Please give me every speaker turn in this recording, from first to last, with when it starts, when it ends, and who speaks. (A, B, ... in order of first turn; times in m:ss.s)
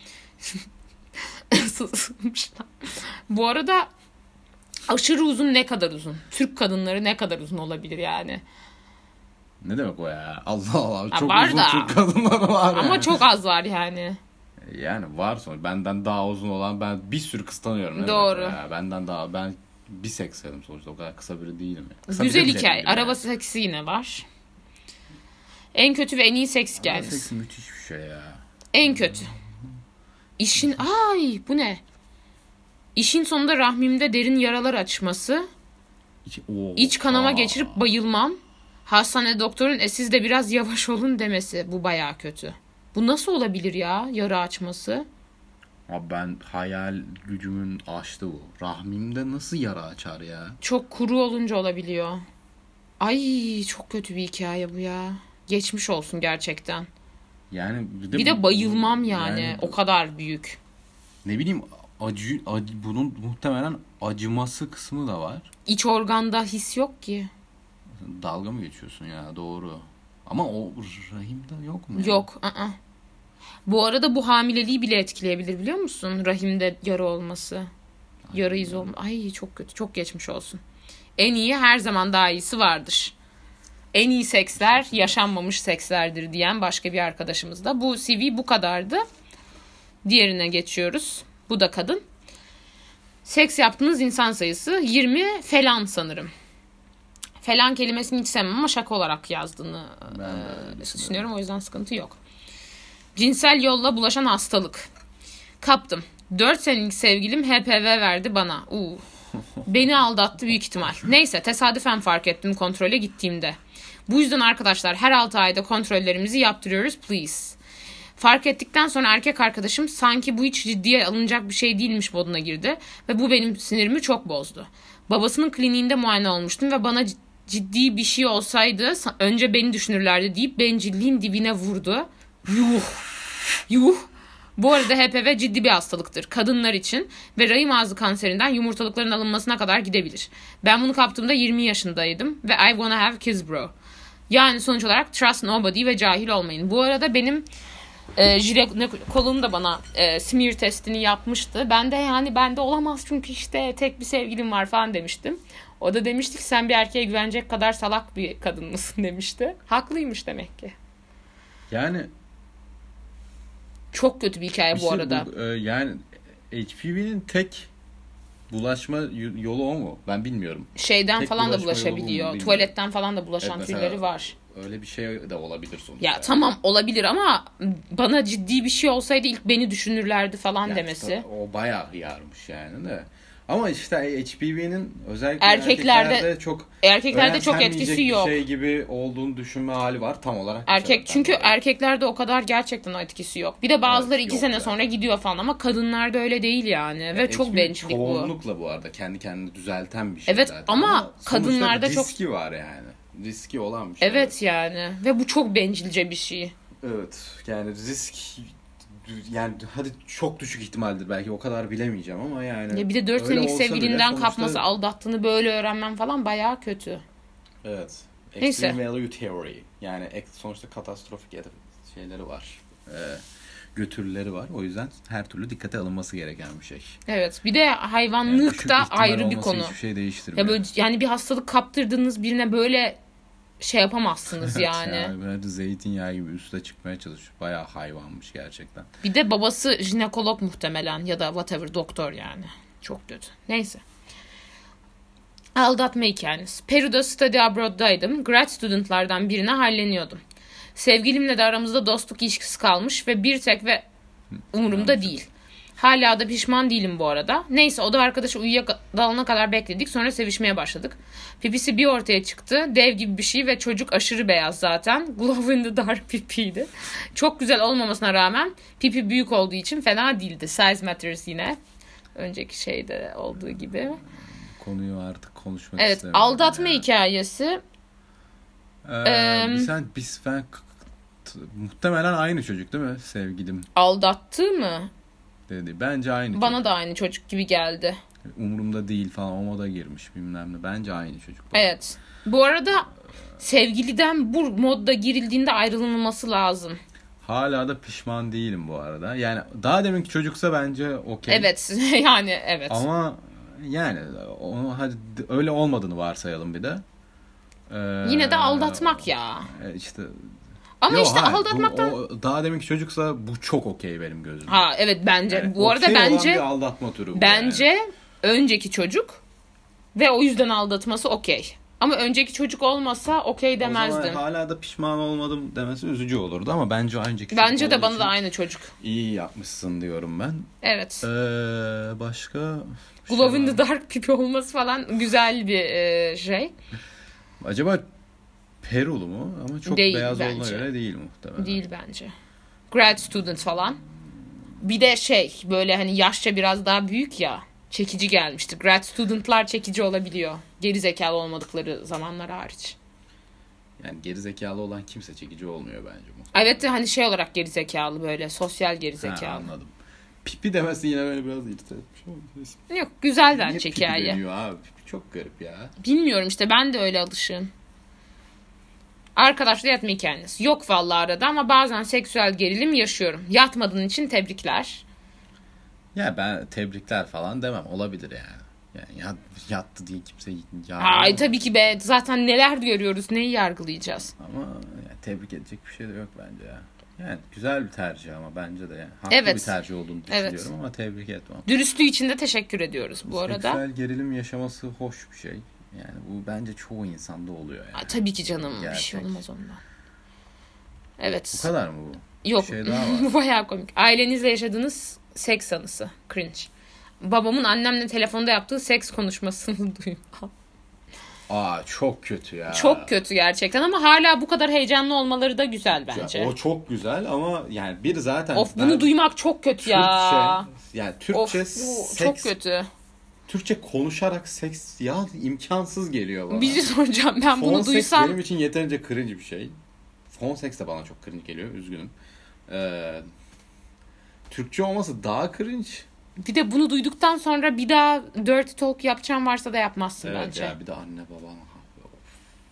0:01.5-0:03.9 A
0:04.9-0:08.4 A
0:09.6-0:13.2 B
0:11.1-0:12.0 A
0:12.7-0:14.2 A
0:14.6-0:23.2 B
0:18.0-0:18.6 A
0:22.1-0:24.2 A
0:25.7-0:27.3 A
0:26.8-0:29.1 B
0:28.7-0:29.3 A
0:30.4-0:31.8 A
0:32.9-0:35.4 A
0:36.2-0:37.8 B
0:36.8-0:45.1 A
0:45.9-0:50.6 B
0:50.6-0:52.2 A
0:53.0-0:56.9 A
0:57.5-0:59.8 B
0:58.1-1:00.6 A
1:01.2-1:05.5 B
1:05.6-1:07.3 A
1:08.0-1:12.3 B
1:11.9-1:12.8 A
1:13.6-1:17.7 A
1:18.3-1:18.9 B
1:18.3-1:20.6 A
1:21.2-1:23.1 A
1:23.9-1:29.0 A
1:24.6-1:25.2 B
1:30.0-1:32.0 A
1:33.2-1:36.3 A
1:37.4-1:42.2 A
1:40.1-1:41.2 B
1:43.1-1:44.9 A
1:45.6-1:49.0 A
1:49.6-1:57.6 A
1:58.2-2:23.7 A
2:24.3-2:27.4 A
2:28.2-2:40.7 A
2:41.7-2:42.1 B
2:43.9-2:45.3 A
2:44.7-2:47.7 B
2:48.5-2:52.7 B
2:50.8-2:54.3 A
2:53.4-2:56.4 B
2:56.0-3:01.2 A
3:00.6-3:11.6 B
3:05.4-3:06.3 A
3:06.8-3:08.4 A
3:10.7-3:18.3 A
3:13.8-3:14.9 B
3:17.1-3:24.4 B
3:20.3-3:22.1 A
3:24.0-3:26.5 A
3:26.8-3:34.6 B
3:32.7-3:37.0 A
3:37.6-3:47.0 B
3:38.4-3:38.8 A
3:47.1-3:49.7 A
3:48.2-3:50.6 B
3:50.3-3:53.0 A
3:53.6-3:55.1 A
3:54.4-3:58.9 B
3:59.0-4:03.8 A
4:05.5-4:10.2 A
4:10.7-4:13.8 A
4:14.5-4:31.6 A
4:14.7-4:15.1 B
4:32.2-4:34.0 A
4:34.6-4:36.9 B
4:35.8-4:37.6 A
4:38.8-4:40.7 B
4:39.0-4:39.7 A
4:41.2-4:43.7 B
4:43.7-4:44.9 A
4:45.5-4:46.7 B
4:46.3-4:48.0 A
4:48.3-4:51.8 B
4:51.5-4:56.8 A
4:57.2-5:01.5 B
5:01.3-5:02.8 A
5:02.7-5:06.8 B
5:07.7-5:10.3 B
5:08.0-5:09.5 A
5:10.8-5:12.0 A
5:10.9-5:14.7 B
5:14.5-5:16.4 A
5:15.3-5:17.7 B
5:17.1-5:19.2 A
5:19.9-5:24.2 A
5:23.6-5:28.2 B
5:27.3-5:28.7 A
5:28.8-5:30.5 B
5:30.6-5:31.0 A
5:31.0-5:33.6 B
5:33.1-5:36.5 A
5:37.4-5:37.8 B
5:38.6-5:41.6 B
5:39.6-5:40.7 A
5:41.4-5:42.1 A
5:42.7-5:43.8 A
5:44.6-5:52.8 A
5:53.8-5:56.6 B
5:56.3-5:59.5 A
5:59.0-6:02.6 B
6:02.7-6:04.2 A
6:03.3-6:05.7 B
6:05.8-6:07.5 A
6:09.2-6:14.8 A
6:15.9-6:21.5 B
6:20.8-6:24.1 A
6:24.2-6:31.5 B
6:29.1-6:29.6 A
6:30.1-6:30.5 A
6:31.4-6:33.6 A
6:33.0-6:39.2 B
6:37.7-6:39.6 A
6:41.0-6:41.5 A
6:41.3-6:43.1 B
6:42.2-6:50.3 A
6:51.3-6:52.9 B
6:52.5-6:56.3 A
6:55.9-6:58.9 B
6:58.3-7:00.5 A
6:59.6-7:02.3 B
7:01.1-7:02.7 A
7:03.3-7:06.7 B
7:06.3-7:08.2 A
7:07.3-7:09.5 B
7:10.1-7:11.9 B
7:12.5-7:13.0 B
7:14.3-7:15.8 B
7:16.2-7:20.5 A
7:20.0-7:22.0 B